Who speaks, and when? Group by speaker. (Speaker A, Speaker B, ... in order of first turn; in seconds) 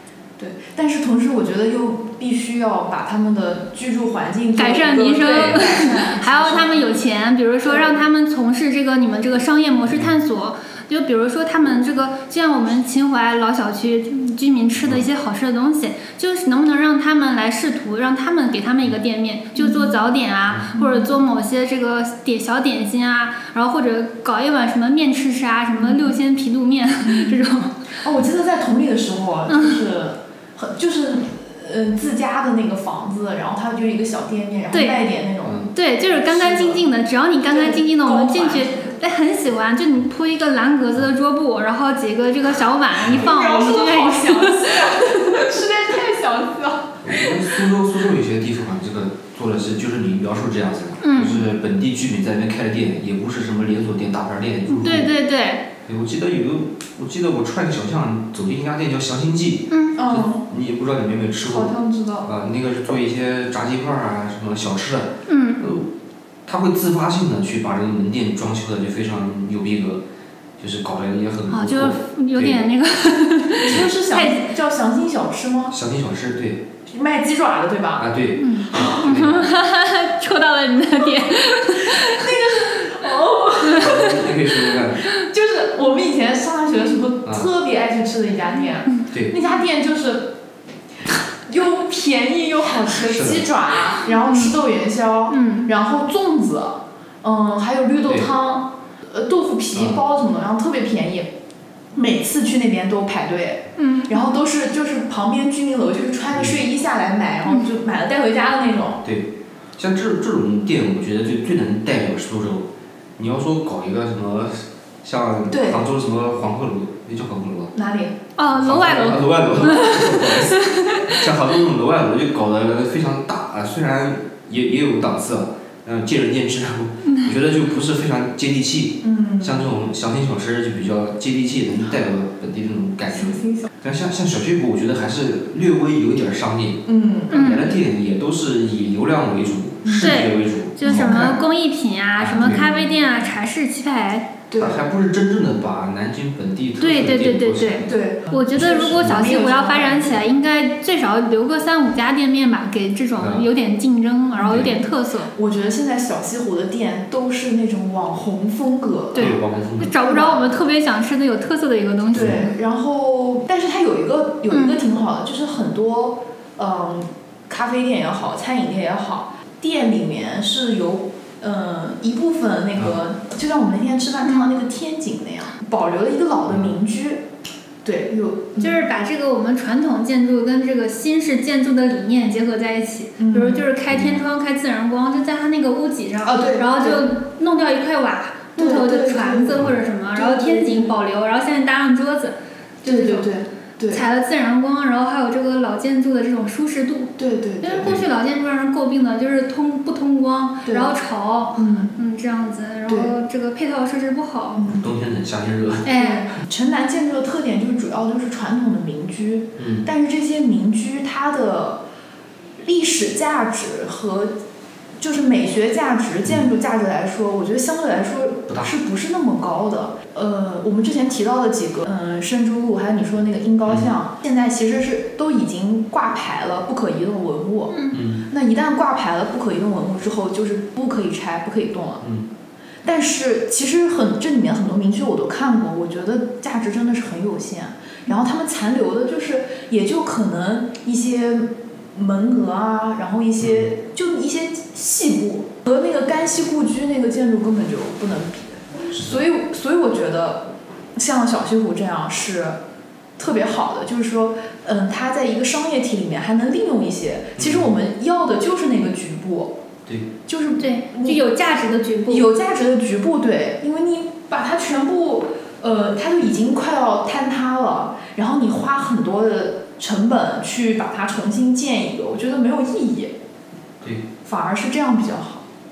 Speaker A: 0.4-6.9, 7.6-8.0, 19.6-20.0, 20.7-21.1, 25.7-26.2, 27.0-36.8, 37.5-39.0, 43.0-47.6, 60.0-60.4, 61.5-62.3, 73.6-75.8, 76.9-78.1, 78.7-79.0, 81.7-84.2, 85.0-90.4, 91.4-101.3, 101.9-109.0, 115.5-115.8, 117.7-118.2, 129.0-129.7, 133.1-133.7, 136.9-137.4, 139.8-140.2, 140.8-141.4, 142.4-142.9, 144.5-144.8, 147.8-150.2, 154.4-154.8, 155.3-159.3, 160.0-160.6, 162.1-177.3, 177.8-178.8, 183.2-183.7, 186.2-187.1, 188.6-190.9, 192.8-194.0, 197.2-198.0, 200.7-200.9, 201.6-202.0, 202.9-203.1, 204.6-204.9, 205.9-211.8, 212.6-214.3, 215.0-232.0, 232.8-252.6, 253.2-259.6, 260.3-261.2, 262.1-273.1, 274.2-275.4
Speaker B: 4.6-27.8, 29.5-29.8, 34.7-35.0, 35.7-45.3, 51.0-51.5, 54.7-55.6, 59.7-60.0, 65.3-65.7, 71.5-74.5, 78.4-82.7, 83.7-84.2, 94.0-94.5, 95.3-95.7, 103.8-104.2, 118.4-121.2, 137.3-137.8, 140.0-144.3, 146.8-155.3, 159.2-162.5, 164.5-164.8, 174.2-174.6, 178.6-193.3, 193.9-204.6, 205.8-206.3, 227.7-228.0, 260.6-262.3
Speaker C: 14.8-15.1, 47.0-55.1, 55.9-65.9, 66.5-70.0, 70.6-72.7, 75.7-76.7, 78.0-79.5, 83.8-85.0, 93.0-93.5, 99.7-100.0, 109.0-117.7, 118.5-141.4, 142.2-142.7, 144.6-147.9, 148.8-149.2, 153.2-153.5, 154.5-154.8, 159.2-160.0, 162.1-162.5, 183.9-184.2, 204.7-205.9, 209.6-209.9, 227.9-228.2, 232.0-232.3, 243.4-243.7, 248.9-249.2, 257.4-257.7, 273.8-274.1